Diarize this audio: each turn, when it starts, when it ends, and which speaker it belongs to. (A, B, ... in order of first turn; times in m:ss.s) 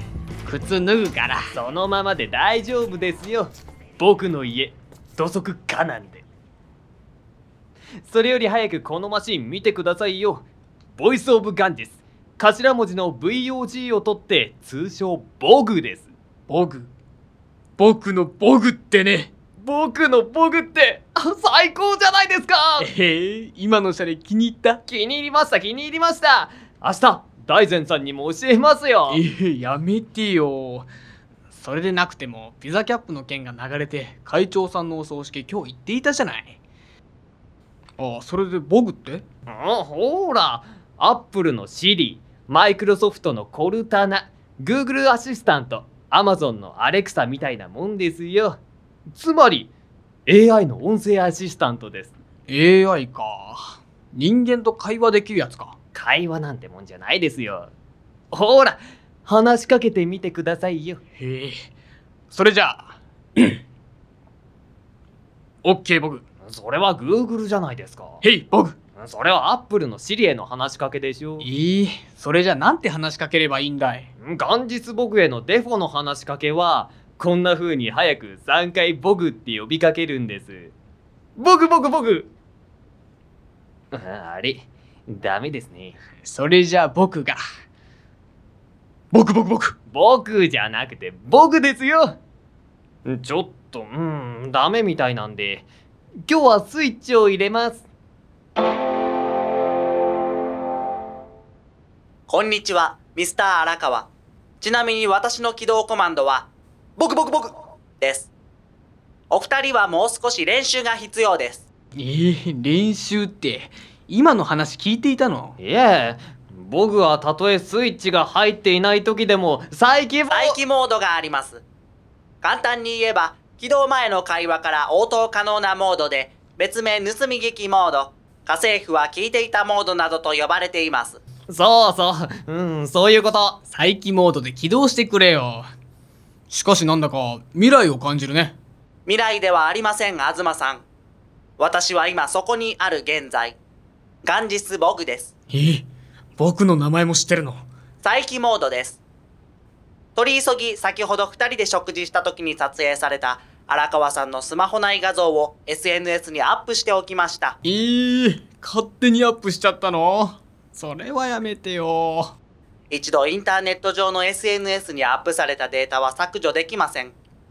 0:00.4-0:01.5 A
0:01.5-0:06.2 B
0:08.0-0:16.1 B
0:16.5-0:16.9 A
0:17.8-0:19.3 A
0:19.6-0:22.9 B
0:22.8-0:24.8 A
0:24.9-0:29.2 B
0:29.1-0:30.9 A
0:31.5-0:36.6 A
0:38.0-0:39.2 A
0:39.5-0:49.7 B
0:50.3-0:52.1 B
0:52.5-0:55.7 A
0:55.9-0:57.7 B
0:58.3-1:01.0 B
1:01.2-1:01.6 A
1:02.3-1:03.6 A
1:05.6-1:06.2 A
1:06.4-1:08.2 B
1:08.2-1:08.8 A
1:09.0-1:11.5 B
1:11.4-1:14.1 A
1:14.2-1:20.7 B
1:21.4-1:22.3 B
1:23.9-1:26.0 B
1:26.2-1:27.4 A
1:29.1-1:29.7 A
1:29.9-1:32.2 B
1:33.0-1:35.6 B
1:36.2-1:37.8 B
1:42.3-1:44.1 C
1:44.6-1:48.3 C
1:49.3-1:51.6 C
1:52.0-1:55.6 A
1:55.6-2:00.6 B
2:00.3-2:01.6 C
2:02.4-2:11.2 C
2:11.5-2:13.6 B
2:13.7-2:15.7 A
2:16.5-2:18.6 A
2:19.0-2:20.8 C
2:21.6-2:23.6 C
2:24.2-2:25.3 C
2:25.5-2:25.8 A
2:26.4-2:27.6 A
2:28.0-2:29.0 C
2:30.2-2:37.6 C
2:37.6-2:42.3 A
2:42.9-2:47.1 C